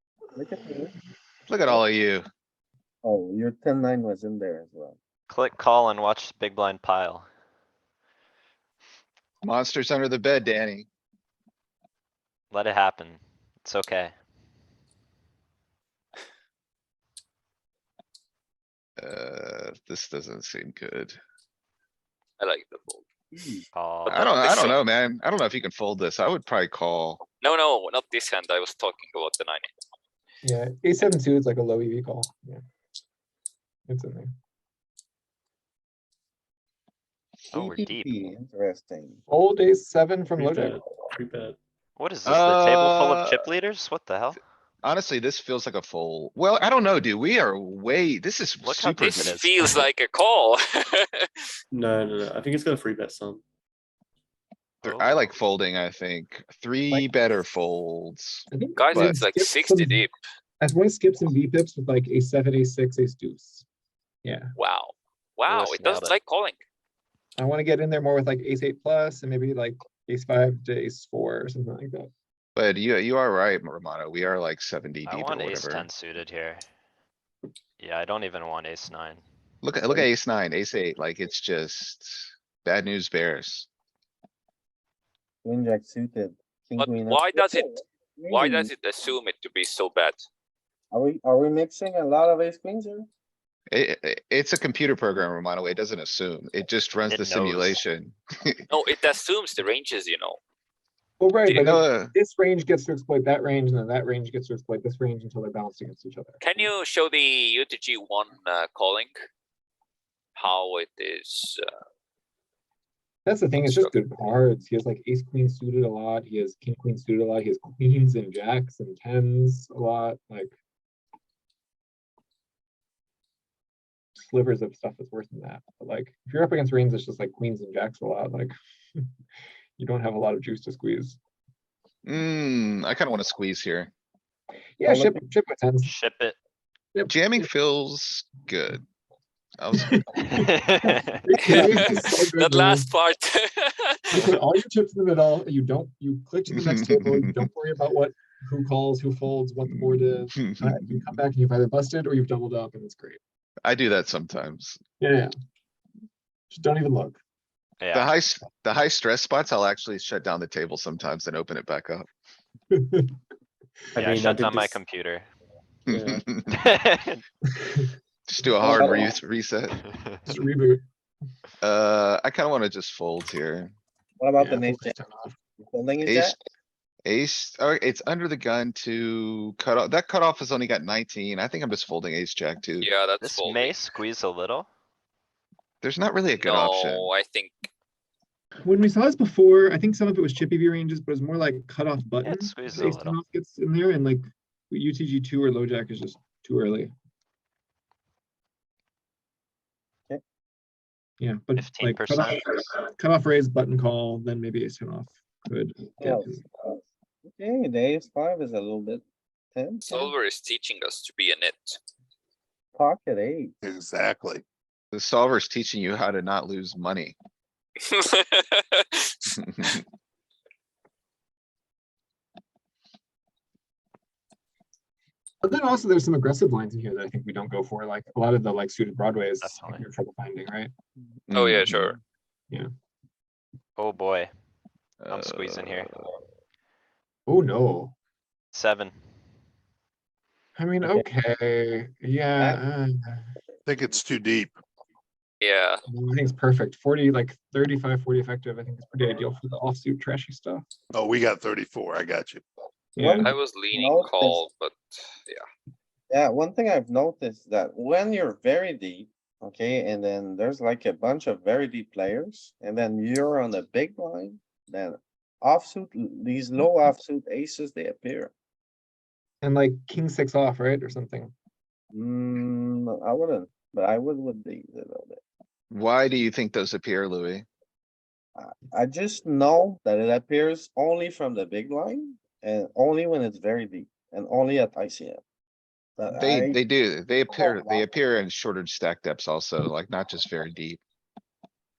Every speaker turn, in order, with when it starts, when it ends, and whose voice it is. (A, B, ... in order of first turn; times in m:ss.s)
0:00.4-0:00.9 A
0:01.5-0:02.2 B
0:03.0-0:05.0 A
0:05.3-0:07.3 C
0:09.4-0:10.9 B
0:12.5-0:14.2 C
0:19.0-0:21.2 B
0:22.4-0:23.0 D
0:23.3-0:23.6 A
0:23.7-0:24.3 C
0:24.0-0:24.8 D
0:24.1-0:27.2 B
0:27.4-0:29.7 D
0:30.4-0:32.6 E
0:33.9-0:34.3 E
0:37.5-0:39.2 A
0:37.5-0:38.4 C
0:39.3-0:40.8 E
0:40.4-0:41.6 F
0:42.0-0:44.4 C
0:42.3-0:43.4 B
0:44.8-0:49.4 B
0:48.6-0:49.8 C
0:49.0-0:51.3 D
0:51.7-0:53.4 F
0:54.8-0:55.3 C
0:54.8-0:59.1 B
0:58.5-1:00.0 E
0:58.8-1:00.1 D
1:00.6-1:03.6 E
1:04.2-1:04.5 E
1:04.6-1:06.6 D
1:05.5-1:06.2 C
1:07.4-1:12.1 E
1:12.6-1:15.9 B
1:15.0-1:16.6 C
1:17.8-1:19.2 C
1:19.6-1:23.7 B
1:25.4-1:28.7 A
1:26.8-1:27.7 D
1:28.3-1:30.2 D
1:30.9-1:33.1 A
1:33.7-1:38.6 B
1:37.1-1:37.8 C
1:38.7-1:40.4 D
1:41.2-1:46.7 E
1:41.6-1:42.1 B
1:46.4-1:49.1 D
1:50.4-1:51.7 D
1:53.2-2:00.6 E
1:53.6-1:53.9 D
2:04.2-2:09.0 E
2:09.8-2:11.2 E
2:12.1-2:13.9 B
2:14.8-2:15.9 E
2:14.8-2:15.2 A
2:15.8-2:16.4 C
2:17.0-2:17.5 E
2:17.1-2:18.8 B
2:19.6-2:20.0 B
2:19.8-2:22.9 E
2:20.2-2:21.8 C
2:21.4-2:24.3 D
2:24.1-2:33.2 E
2:26.5-2:27.3 B
2:29.7-2:31.2 B
2:33.6-2:34.8 B
2:35.0-2:35.3 E
2:36.5-2:37.2 E
2:37.8-2:38.1 C
2:37.9-2:42.1 B
2:42.7-2:43.1 E
2:44.0-2:44.8 F
2:44.0-2:45.3 C
2:45.9-2:46.5 B
2:45.9-2:46.2 F
2:46.5-2:47.2 C
2:47.6-2:47.9 E
2:48.3-2:49.8 B
2:48.6-2:49.0 E
2:48.6-2:49.2 A
2:49.8-2:50.2 C
2:50.3-2:50.8 E
2:51.6-2:53.7 B
2:54.2-2:55.0 A
2:54.4-2:55.3 E
2:55.6-2:56.3 A
2:56.0-2:56.4 B
2:57.0-3:02.9 B
3:02.8-3:03.8 D
3:03.2-3:04.7 C
3:05.8-3:07.1 B
3:06.4-3:07.7 D
3:08.6-3:16.9 E
3:12.2-3:13.2 C
3:21.2-3:26.4 E
3:21.6-3:22.4 C
3:26.0-3:29.0 A
3:29.5-3:30.1 A
3:29.8-3:31.8 D
3:32.8-3:33.6 A
3:33.6-3:34.4 G
3:34.9-3:37.2 B
3:37.8-3:39.3 D
3:39.4-3:39.8 B
3:45.4-3:50.7 E
3:49.4-3:49.9 C
3:51.3-3:51.9 B
3:51.3-3:52.0 D
3:53.8-3:54.3 C
3:55.0-3:55.8 B
3:55.1-3:56.1 C
3:57.3-3:57.9 E
3:58.5-3:59.0 C
4:00.6-4:03.3 E
4:02.4-4:02.6 A
4:03.7-4:04.6 G
4:05.4-4:05.8 D
4:05.9-4:10.6 E
4:10.9-4:12.4 G
4:13.0-4:13.3 E
4:13.0-4:14.4 A
4:13.2-4:15.5 D
4:16.1-4:28.3 A
4:29.4-4:31.3 E
4:31.9-4:35.2 A
4:35.7-4:37.4 B
4:38.4-4:45.2 A
4:46.0-4:46.6 A
4:46.2-4:50.8 B
4:47.3-4:47.8 A